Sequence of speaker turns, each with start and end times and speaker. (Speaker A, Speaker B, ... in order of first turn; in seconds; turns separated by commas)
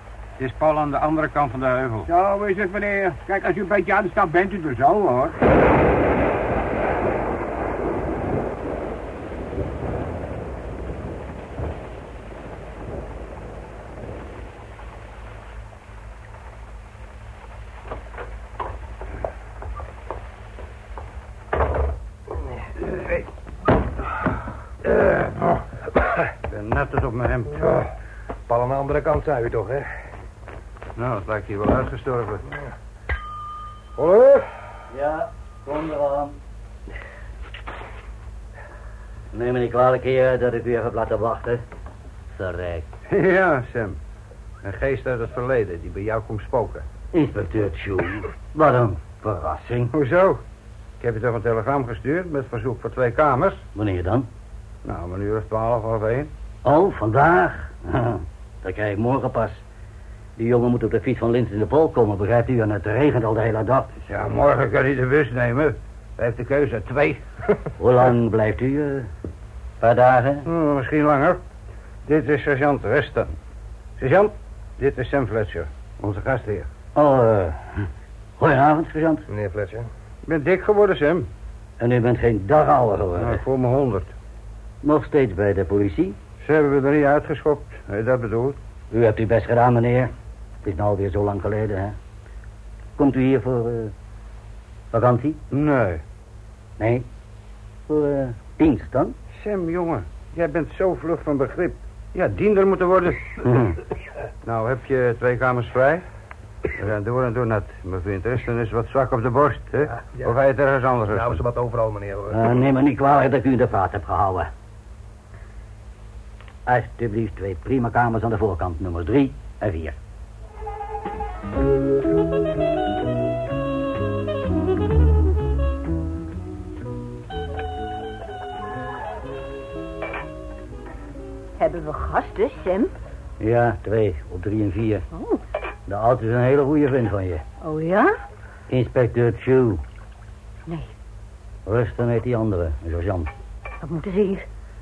Speaker A: 0.4-2.1, Speaker B: 2.1-5.3, Speaker A: 26.5-27.8, Speaker C: 28.5-29.9, Speaker A: 30.9-32.5, Speaker A: 34.0-34.5, Speaker D: 34.9-36.4, Speaker D: 39.3-41.6, Speaker D: 42.3-42.8, Speaker A: 43.1-44.0, Speaker A: 44.6-46.8, Speaker D: 47.1-49.9, Speaker A: 49.9-50.4, Speaker A: 51.0-53.6, Speaker D: 53.7-54.3, Speaker A: 54.8-56.3, Speaker D: 56.6-59.6, Speaker D: 60.4-63.9, Speaker A: 64.1-67.2, Speaker D: 67.8-69.1, Speaker D: 69.8-70.4, Speaker A: 70.5-71.4, Speaker A: 72.0-73.3, Speaker A: 74.0-76.7, Speaker D: 76.9-77.8, Speaker D: 78.4-79.2, Speaker C: 79.3-79.9, Speaker A: 80.2-81.3, Speaker D: 81.8-83.4, Speaker A: 83.2-84.1, Speaker D: 84.8-86.2, Speaker A: 86.4-88.5, Speaker D: 88.9-90.1, Speaker D: 90.6-91.9, Speaker D: 93.0-93.9, Speaker D: 94.9-95.4, Speaker A: 95.5-96.0, Speaker D: 96.8-97.0, Speaker D: 97.9-99.1, Speaker A: 99.3-103.4, Speaker D: 103.4-103.7, Speaker A: 104.4-106.0, Speaker A: 106.7-111.4, Speaker C: 109.9-110.3, Speaker C: 111.1-112.4, Speaker D: 112.3-114.5, Speaker D: 116.7-119.9, Speaker E: 131.6-132.9, Speaker D: 133.4-135.0, Speaker E: 135.1-135.4, Speaker D: 135.9-137.4, Speaker E: 137.6-138.1, Speaker D: 138.7-139.8, Speaker D: 141.7-143.3, Speaker E: 143.8-144.5